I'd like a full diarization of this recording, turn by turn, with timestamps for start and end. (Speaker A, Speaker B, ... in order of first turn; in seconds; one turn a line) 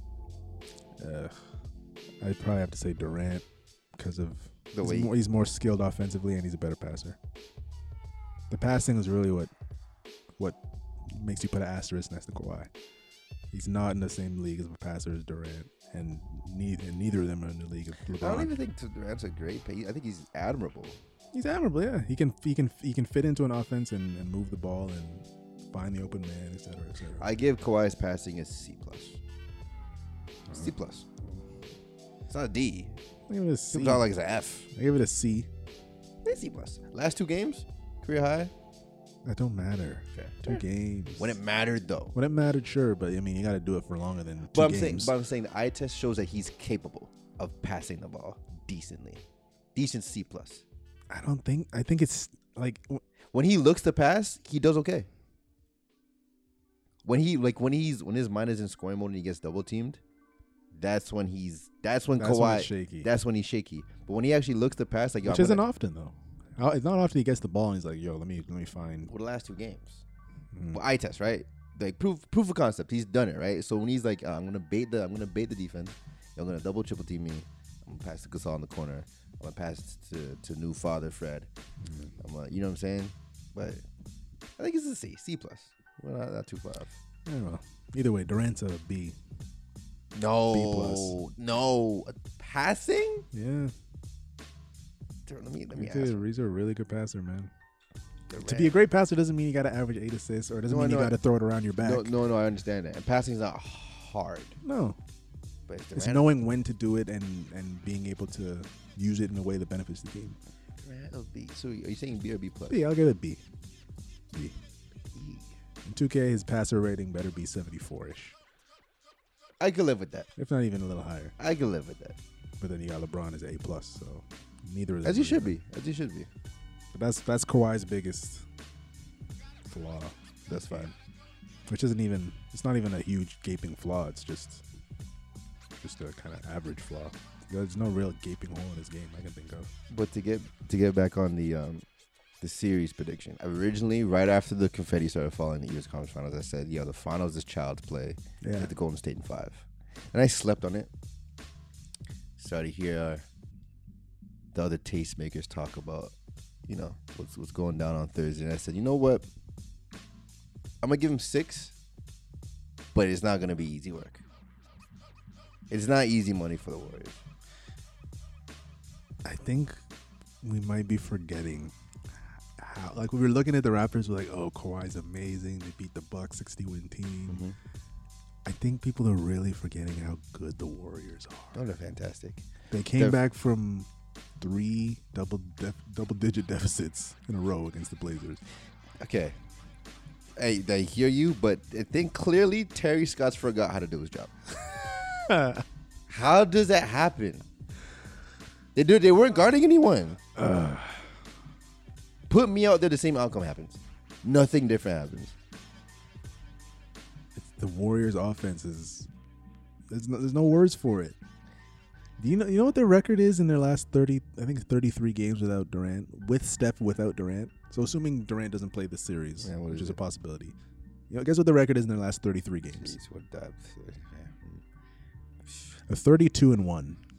Speaker A: 1.0-1.4
Speaker A: 2.2-3.4
Speaker A: 4.0-7.2
Speaker B: 4.7-5.1
Speaker A: 8.5-9.5
Speaker A: 10.4-12.7
Speaker A: 13.5-18.5
Speaker B: 18.2-21.0
Speaker A: 21.3-27.3
Speaker B: 27.2-29.2
Speaker B: 30.5-31.1
Speaker B: 32.3-33.0
Speaker A: 33.3-34.1
Speaker B: 33.7-34.7
Speaker A: 34.7-35.5
Speaker B: 36.2-38.5
Speaker A: 39.2-41.4
Speaker B: 40.1-40.6
Speaker B: 41.2-42.1
Speaker A: 42.1-45.1
Speaker B: 44.5-49.2
Speaker B: 49.7-50.6
Speaker A: 51.1-53.0
Speaker B: 53.3-55.1
Speaker B: 57.0-60.0
Speaker B: 60.7-65.6
Speaker A: 62.2-63.1
Speaker A: 65.2-69.1
Speaker B: 69.1-70.0
Speaker A: 70.5-70.8
Speaker B: 70.7-81.5
Speaker A: 81.8-82.1
Speaker B: 82.2-83.8
Speaker B: 84.6-86.9
Speaker A: 87.2-89.2
Speaker B: 90.1-93.3
Speaker A: 90.5-91.2
Speaker A: 93.3-93.7
Speaker B: 95.3-96.2
Speaker A: 95.7-97.5
Speaker B: 98.3-98.8
Speaker A: 98.4-102.1
Speaker B: 100.7-101.2
Speaker B: 101.8-104.6
Speaker A: 104.6-105.0
Speaker B: 105.7-106.3
Speaker A: 106.0-110.4
Speaker B: 110.8-112.8
Speaker A: 112.7-113.4
Speaker B: 115.1-115.5
Speaker A: 115.8-118.3
Speaker B: 119.6-120.3
Speaker A: 120.4-121.3
Speaker B: 121.4-122.2
Speaker A: 122.6-125.5
Speaker B: 125.0-126.3
Speaker A: 126.9-128.4
Speaker A: 129.7-130.9
Speaker B: 130.5-130.9
Speaker A: 131.7-134.6
Speaker A: 135.8-139.7
Speaker B: 139.9-141.8
Speaker B: 142.4-150.9
Speaker A: 148.4-148.7
Speaker B: 152.4-153.2
Speaker B: 154.5-156.1
Speaker B: 156.7-159.2
Speaker B: 160.8-161.7
Speaker B: 162.9-164.2
Speaker B: 165.7-167.2
Speaker A: 169.2-169.8
Speaker A: 170.4-171.7
Speaker A: 172.6-177.4
Speaker B: 177.3-177.6
Speaker A: 178.4-181.6
Speaker B: 181.5-183.2
Speaker A: 182.7-183.9
Speaker A: 184.4-188.4
Speaker B: 189.0-189.3
Speaker B: 190.4-194.4
Speaker A: 195.3-195.6
Speaker B: 196.1-197.4
Speaker B: 198.7-200.2
Speaker A: 200.3-201.1
Speaker B: 202.3-205.3
Speaker A: 207.3-209.1
Speaker A: 209.9-211.2
Speaker A: 212.2-220.5
Speaker B: 219.4-220.0
Speaker A: 221.1-222.9
Speaker B: 222.7-224.6
Speaker A: 225.9-227.0